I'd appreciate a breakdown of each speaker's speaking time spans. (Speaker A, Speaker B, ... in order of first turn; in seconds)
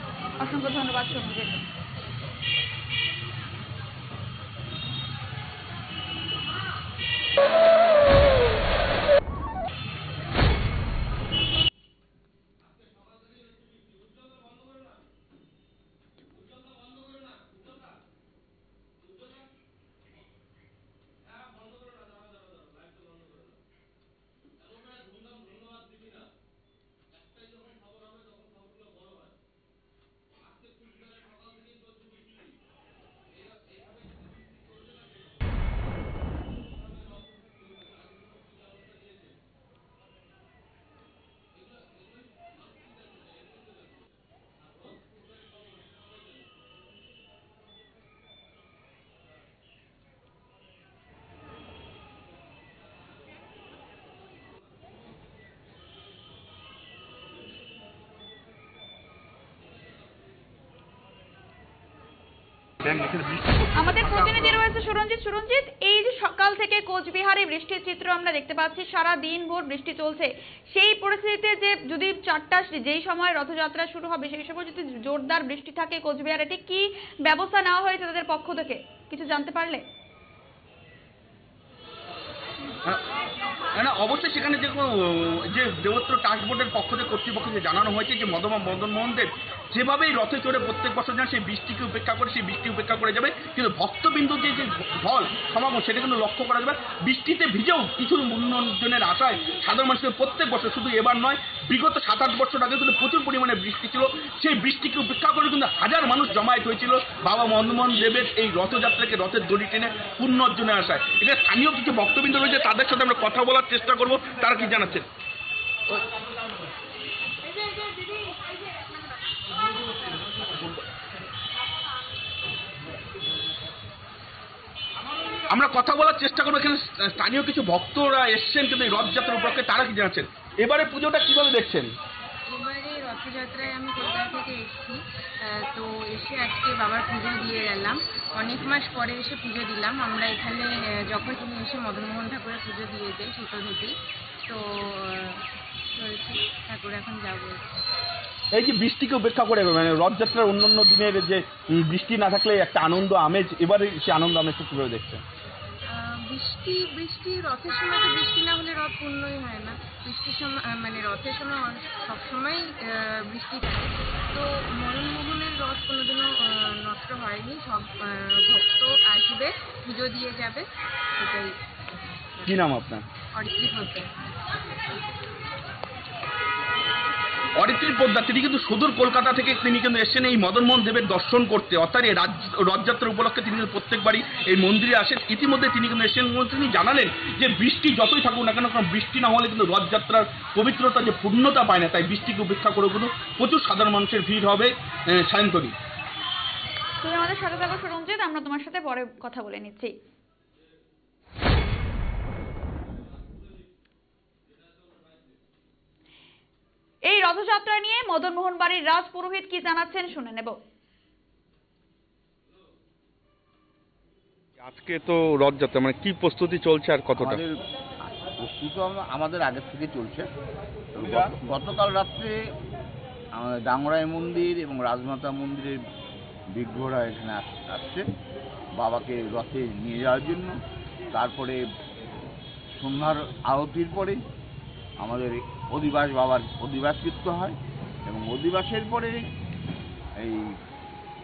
Speaker A: 0.4-1.6, 63.7-79.8, 197.0-199.9, 207.1-210.6
Speaker B: 62.8-63.7, 83.7-115.1, 125.5-131.9, 148.5-155.2, 172.4-173.0, 177.6-195.8, 214.6-217.4
Speaker C: 132.5-143.9, 144.5-147.9, 155.9-172.6, 173.3-174.1
Speaker D: 217.2-217.6, 218.1-220.3, 220.9-222.4, 223.3-225.8, 226.5-228.0, 228.8-230.6, 231.1-231.6, 232.7-234.2, 235.0-239.3, 240.2-240.5